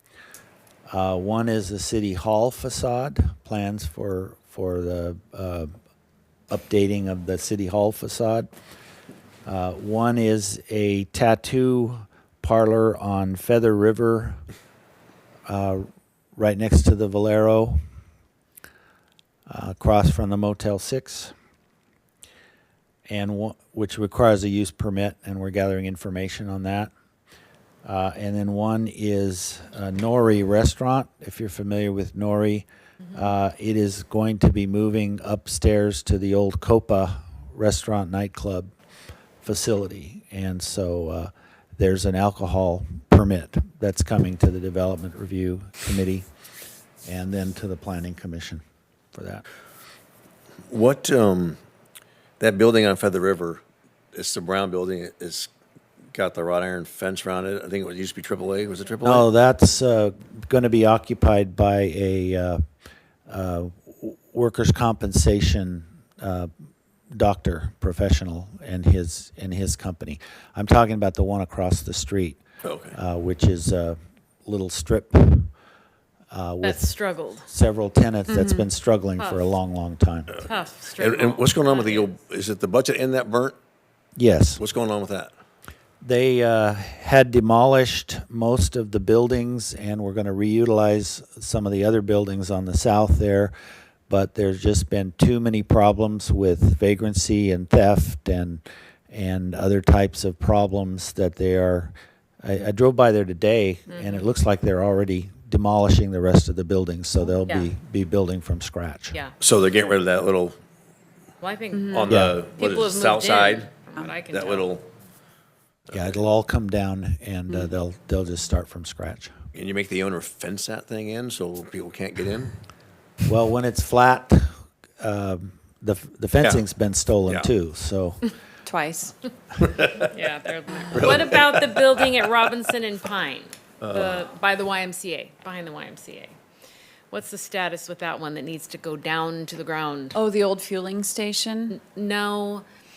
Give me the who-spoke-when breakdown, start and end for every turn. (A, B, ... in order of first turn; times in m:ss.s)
0:00.9-0:05.7 A
0:06.5-0:08.5 A
0:09.4-0:14.4 A
0:15.5-0:17.8 A
0:19.5-0:21.3 A
0:23.1-0:26.9 A
0:27.8-0:38.7 A
0:39.4-0:46.3 A
0:47.0-0:49.4 A
0:50.7-0:51.6 B
0:52.4-0:53.6 B
0:54.1-0:55.5 B
0:56.1-0:59.3 B
0:59.0-1:02.6 A
1:03.3-1:06.5 A
1:07.1-1:15.5 A
1:12.6-1:13.0 B
1:16.3-1:20.5 A
1:16.6-1:17.5 C
1:18.3-1:18.7 D
1:19.2-1:19.5 C
1:20.4-1:22.1 C
1:21.0-1:23.6 B
1:24.2-1:24.6 A
1:24.6-1:25.3 B
1:26.0-1:33.5 A
1:34.1-1:49.2 A
1:43.9-1:44.3 C
1:47.3-1:47.7 C
1:49.4-1:50.6 B
1:51.4-1:54.7 C
1:51.8-1:52.1 D
1:51.9-1:53.7 B
1:52.1-1:52.4 A
1:54.3-1:54.9 B
1:55.9-1:59.3 A
1:59.5-2:02.6 B
2:03.2-2:08.3 A
2:08.6-2:09.2 D
2:09.7-2:10.0 B
2:09.9-2:16.4 C
2:10.9-2:12.1 B
2:13.8-2:14.2 B
2:17.1-2:20.2 C
2:20.1-2:21.8 D
2:21.7-2:22.6 C